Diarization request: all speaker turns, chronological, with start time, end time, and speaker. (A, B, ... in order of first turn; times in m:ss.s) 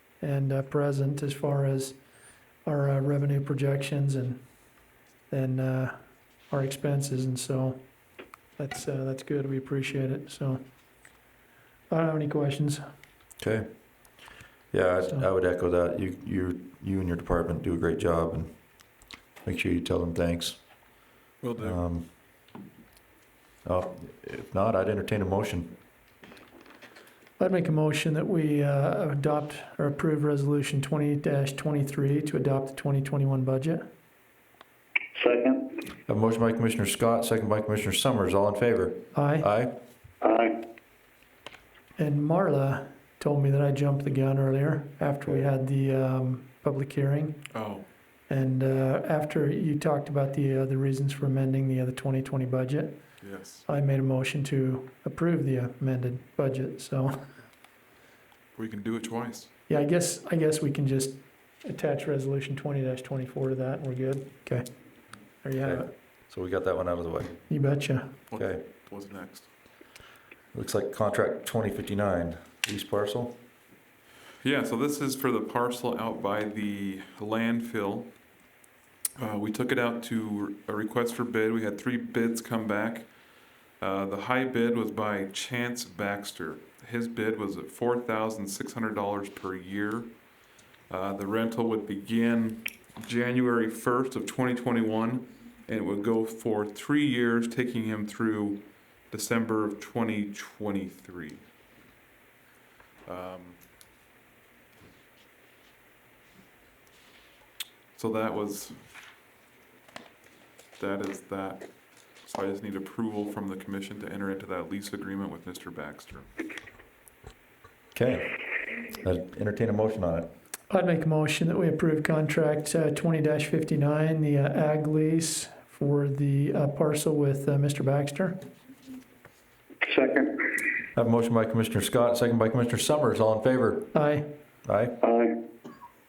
0:00.2-0:02.0 A
0:02.6-0:04.4 A
0:05.3-0:05.9 A
0:06.5-0:07.8 A
0:08.6-0:10.6 A
0:11.9-0:12.8 A
0:13.4-0:13.6 B
0:14.7-0:18.5 B
0:19.4-0:20.6 B
0:21.4-0:21.8 C
0:21.6-0:22.1 B
0:23.6-0:25.7 B
0:27.4-0:33.8 A
0:35.1-0:35.6 D
0:36.1-0:39.7 B
0:39.1-0:39.5 A
0:40.2-0:40.5 D
0:42.0-0:47.4 A
0:47.5-0:47.8 C
0:48.3-0:53.0 A
0:53.2-0:53.6 C
0:53.6-0:57.2 A
0:58.5-0:59.5 C
0:59.7-1:04.6 A
1:05.4-1:05.9 A
1:05.6-1:07.4 B
1:07.5-1:08.1 A
1:08.3-1:09.5 C
1:08.4-1:08.6 B
1:10.5-1:13.4 B
1:14.4-1:18.1 C
1:19.2-1:23.1 C
1:23.8-1:30.1 C
1:30.9-1:41.4 C
1:43.0-1:43.6 C
1:47.9-1:48.8 C
1:50.8-1:51.7 C
1:52.2-1:56.3 C
1:57.9-1:58.4 B
1:59.0-2:00.3 B
2:00.7-2:08.3 A
2:09.8-2:10.5 D
2:11.0-2:13.9 B
2:13.9-2:14.3 A
2:14.6-2:14.9 B
2:15.0-2:15.3 D